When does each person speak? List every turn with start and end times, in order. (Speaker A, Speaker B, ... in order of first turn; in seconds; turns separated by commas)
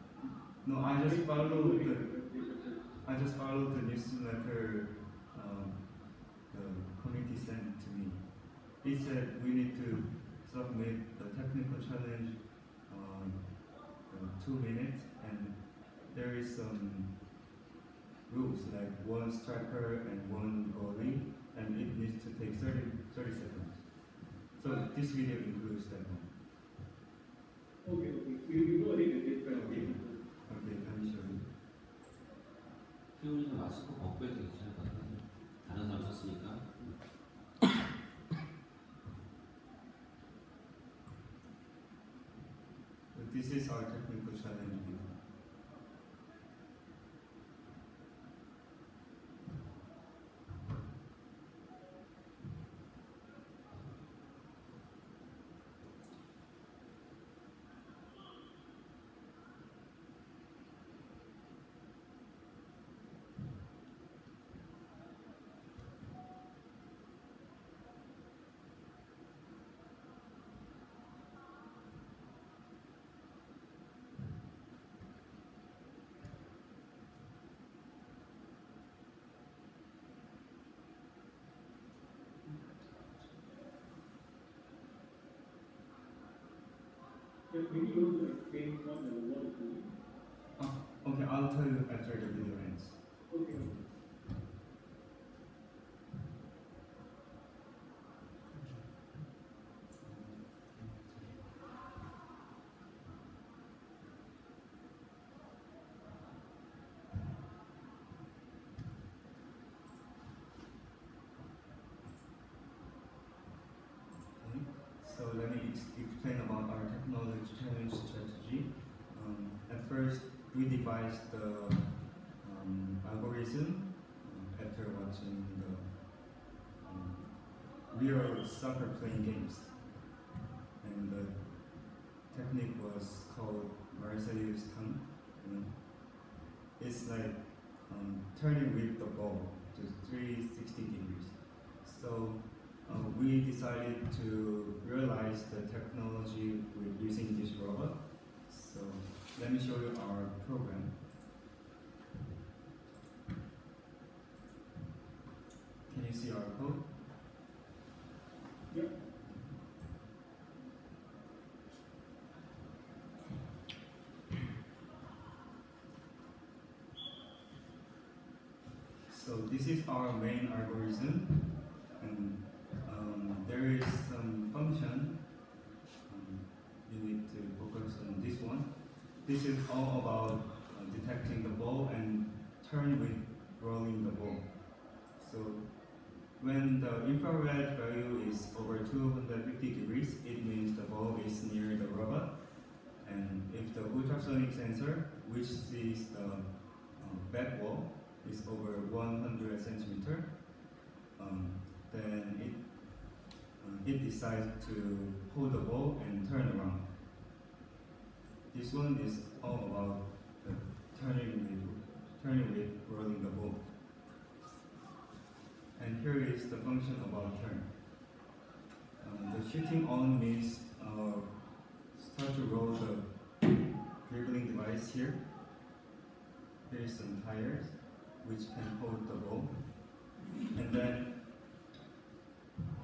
Speaker A: 0.6-2.0, Speaker B: 1.0-2.9, Speaker A: 3.0-17.1, Speaker A: 18.3-23.9, Speaker A: 24.6-26.3, Speaker B: 27.8-30.2, Speaker A: 29.5-31.4, Speaker C: 33.2-37.0, Speaker A: 43.1-45.2, Speaker B: 87.5-89.9, Speaker A: 90.6-93.0, Speaker B: 93.3-93.7, Speaker A: 100.0-101.4, Speaker A: 114.4-129.8, Speaker A: 130.8-136.2, Speaker A: 136.8-151.0, Speaker A: 155.9-156.9, Speaker A: 169.1-175.2, Speaker A: 176.1-185.7, Speaker A: 186.4-206.9, Speaker A: 208.5-213.6, Speaker A: 215.8-217.7, Speaker A: 219.0-223.1, Speaker A: 224.0-225.2, Speaker A: 226.6-229.9, Speaker A: 230.5-231.2